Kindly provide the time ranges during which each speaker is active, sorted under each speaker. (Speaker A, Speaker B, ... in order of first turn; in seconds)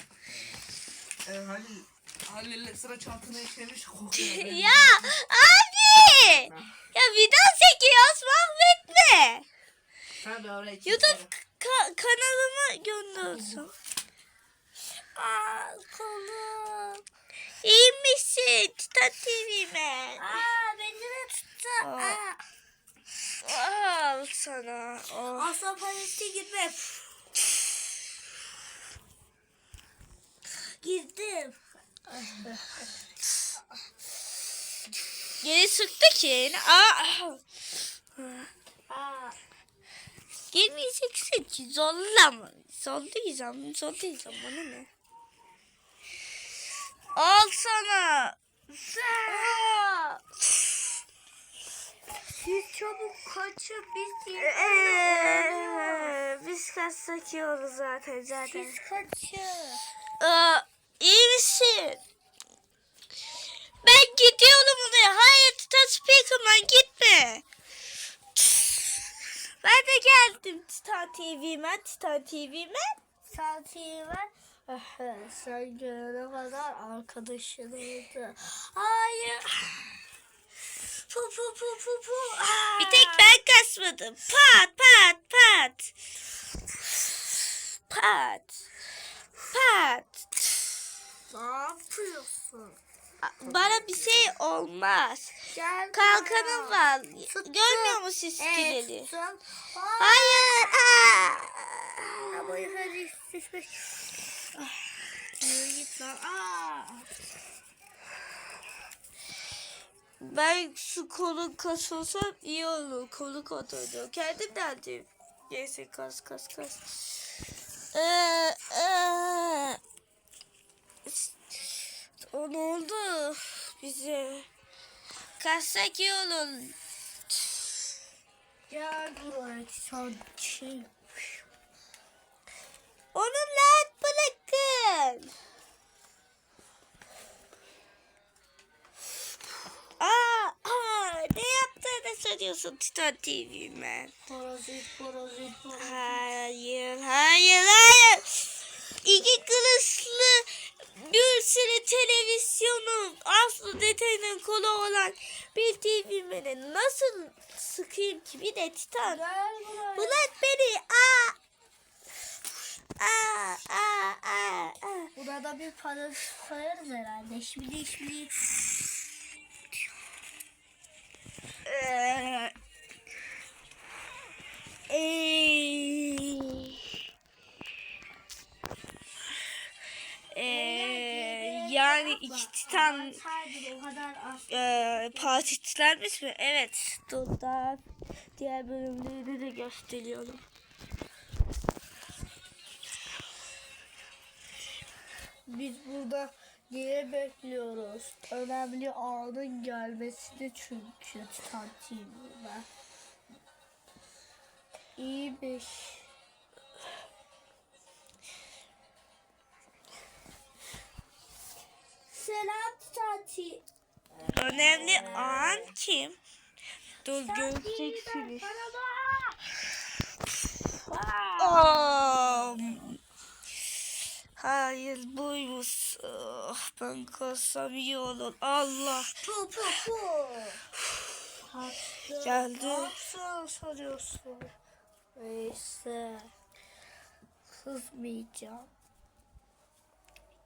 Speaker A: 1.3-5.0, 10.2-11.3, 93.5-94.0
Speaker B: 4.1-9.5, 10.8-13.7, 17.6-20.4, 21.8-22.2, 23.4-25.5, 35.4-37.4, 38.2-38.5, 40.5-44.9, 47.1-49.8, 50.4-50.8, 54.4-58.8, 60.2-62.0, 63.8-67.4, 68.4-69.0, 69.6-73.0, 82.8-85.9, 87.0-88.7, 89.5-90.7, 93.2-95.4, 95.9-99.1, 100.0-102.9, 110.2-117.0, 117.9-119.8, 121.0-124.5, 125.4-126.8, 127.3-127.7, 133.1-135.3, 140.0-144.1, 145.8-159.2, 160.0-161.4, 163.0-165.1, 171.7-172.6, 174.9-176.9, 180.3-183.2, 184.5-187.8, 188.4-190.4, 214.3-216.2, 217.1-218.6, 221.4-223.0, 224.4-229.1, 232.2-233.0
Speaker C: 15.2-17.0, 20.2-22.4, 25.3-27.1, 30.7-32.9, 38.9-39.4, 49.3-50.2, 52.3-56.2, 58.5-59.8, 73.3-80.0, 81.1-83.4, 91.3-92.8, 95.5-101.0, 102.3-103.9, 105.4-107.1, 128.7-131.0, 144.2-146.2, 159.0-160.3, 165.2-168.4, 180.5-185.4, 195.5-202.7, 205.0-206.1, 212.1-213.6, 217.1-219.4, 220.9-221.9, 229.2-230.6, 231.5-234.5, 235.2-236.3, 237.5-238.7